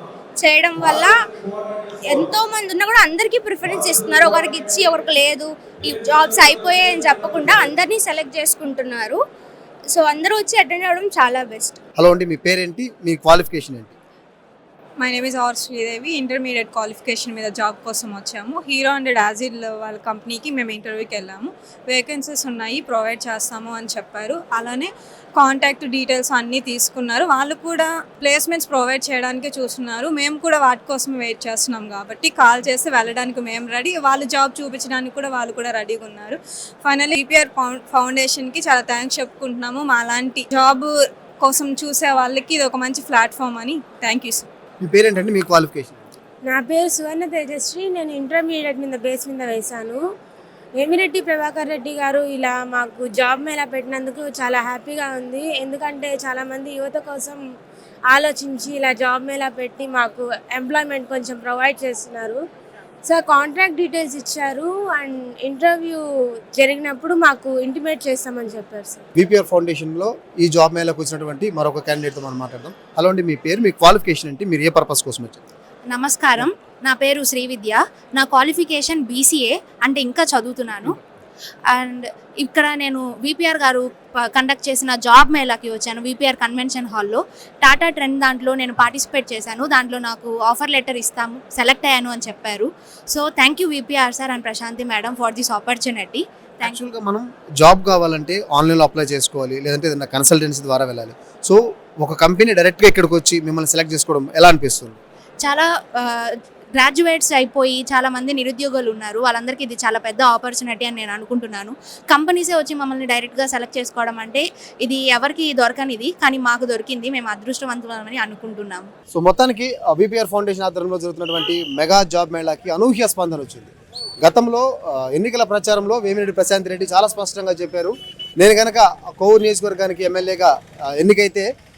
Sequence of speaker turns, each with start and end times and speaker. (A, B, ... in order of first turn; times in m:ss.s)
0:00.4-0:01.1 A
0:02.1-0:09.1 A
0:09.9-0:11.7 A
0:12.0-0:13.9 B
0:15.0-0:24.9 C
0:25.4-0:36.3 C
0:36.8-0:40.8 C
0:41.4-0:44.4 C
0:44.8-0:46.1 B
0:46.4-0:50.0 D
0:50.8-0:57.4 D
0:58.1-1:02.4 D
1:03.0-1:06.0 D
1:06.6-1:09.0 D
1:09.2-1:15.4 B
1:15.9-1:20.9 E
1:21.7-1:36.8 E
1:36.6-1:45.0 B
1:45.4-1:58.9 E
1:59.1-2:11.5 B